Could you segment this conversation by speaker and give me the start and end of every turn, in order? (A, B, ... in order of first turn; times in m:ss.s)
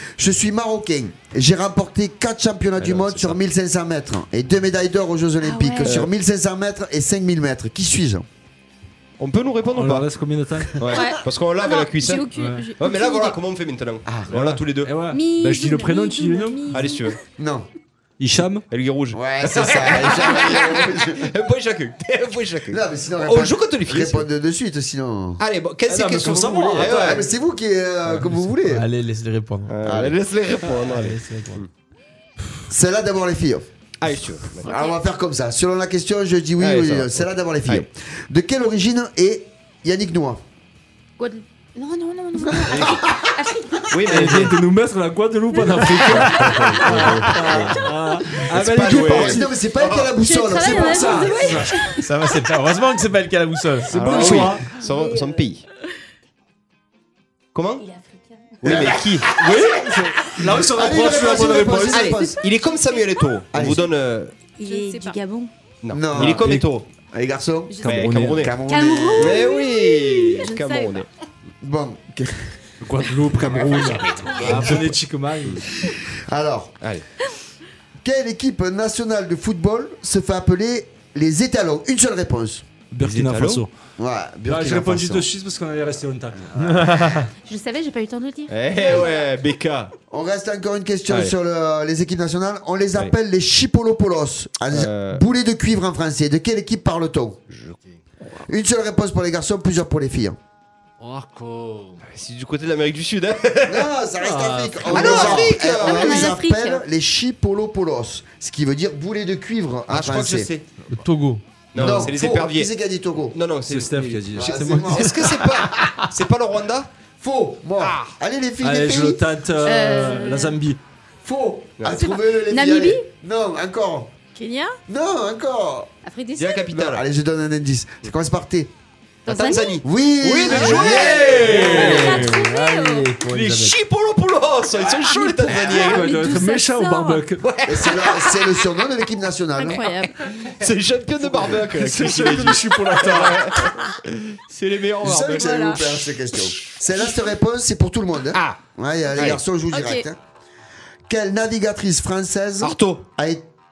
0:00.2-0:08.2 A
0:02.8-0:03.3 B
0:05.4-0:05.9 C
0:05.8-0:06.1 B
0:09.2-0:10.1 B
0:09.7-0:10.7 D
0:10.8-0:12.3 B
0:11.0-0:13.4 E
0:12.4-0:12.6 D
0:12.8-0:14.9 B
0:14.0-0:14.6 A
0:14.8-0:16.6 D
0:15.1-0:17.0 C
0:16.7-0:17.2 B
0:17.4-0:17.7 A
0:18.2-0:18.6 D
0:18.7-0:24.3 B
0:19.1-0:21.3 A
0:22.7-0:25.4 A
0:25.4-0:27.3 B
0:25.9-0:27.2 D
0:26.7-0:28.9 A
0:28.7-0:29.8 F
0:29.7-0:31.7 B
0:29.8-0:30.2 A
0:31.0-0:31.4 D
0:31.1-0:31.6 F
0:32.7-0:33.7 A
0:34.0-0:34.7 B
0:34.6-0:40.4 A
0:36.6-0:37.8 B
0:41.2-0:43.9 C
0:42.4-0:43.4 A
0:42.7-0:43.0 B
0:43.9-0:44.6 B
0:44.0-0:49.6 D
0:46.2-0:47.7 B
0:47.2-0:51.6 A
0:48.6-0:50.1 B
0:50.1-0:52.0 C
0:50.6-0:51.9 E
0:50.7-0:51.7 D
0:52.0-0:54.4 F
0:53.9-0:54.7 D
0:53.9-0:55.6 B
0:54.1-0:54.5 A
0:54.8-0:55.4 C
0:57.5-0:57.8 B
0:57.8-0:58.6 C
0:58.6-0:59.3 B
0:58.6-0:59.6 A
0:58.7-1:02.0 D
1:00.5-1:02.4 A
1:00.8-1:04.4 B
1:02.2-1:03.0 C
1:03.5-1:03.9 A
1:04.6-1:05.5 C
1:04.6-1:05.2 E
1:05.8-1:06.9 B
1:05.9-1:06.6 A
1:06.1-1:06.7 D
1:07.1-1:07.7 A
1:07.7-1:08.0 E
1:07.8-1:08.5 D
1:07.8-1:08.6 B
1:08.3-1:09.4 A
1:08.6-1:09.7 C
1:09.2-1:11.1 B
1:09.4-1:11.1 E
1:11.6-1:12.6 A
1:12.8-1:15.7 D
1:13.3-1:14.9 A
1:15.8-1:16.7 A
1:18.0-1:22.6 A
1:22.9-1:23.7 D
1:23.0-1:23.6 B
1:24.0-1:25.3 A
1:24.5-1:27.2 D
1:26.6-1:27.3 F
1:27.4-1:29.2 C
1:28.5-1:29.9 B
1:30.1-1:37.4 A
1:31.1-1:31.3 B
1:34.7-1:35.2 B
1:38.4-1:40.4 A
1:41.0-1:42.0 D
1:42.1-1:43.9 B
1:43.6-1:50.5 A
1:44.2-1:45.1 D
1:44.9-1:46.3 B
1:44.9-1:46.8 C
1:49.9-1:50.7 B
1:50.9-1:51.4 F
1:51.7-1:52.7 B
1:51.7-1:53.4 A
1:53.3-1:56.9 B
1:53.7-1:55.1 D
1:54.4-1:55.5 A
1:57.2-1:59.2 A
1:57.8-1:58.1 B
1:58.6-2:00.8 D
1:59.6-2:00.6 C
2:01.2-2:04.1 A
2:01.8-2:02.1 B
2:02.3-2:03.1 C
2:04.3-2:04.8 E
2:04.9-2:05.9 A
2:06.0-2:06.7 C
2:06.3-2:07.0 B
2:06.7-2:08.7 A
2:09.2-2:09.8 C
2:09.3-2:12.4 B
2:09.8-2:11.8 A
2:10.5-2:13.2 E
2:11.1-2:13.7 D
2:11.3-2:13.4 F
2:13.2-2:16.2 B
2:15.0-2:17.3 E
2:15.5-2:17.4 D
2:17.4-2:18.5 B
2:17.6-2:19.8 A
2:19.6-2:20.3 E
2:20.1-2:26.0 B
2:21.2-2:23.5 D
2:25.0-2:30.2 A
2:25.3-2:25.8 E
2:28.3-2:28.6 B
2:29.1-2:29.4 B
2:29.7-2:30.0 E
2:31.1-2:33.5 A
2:32.6-2:33.1 B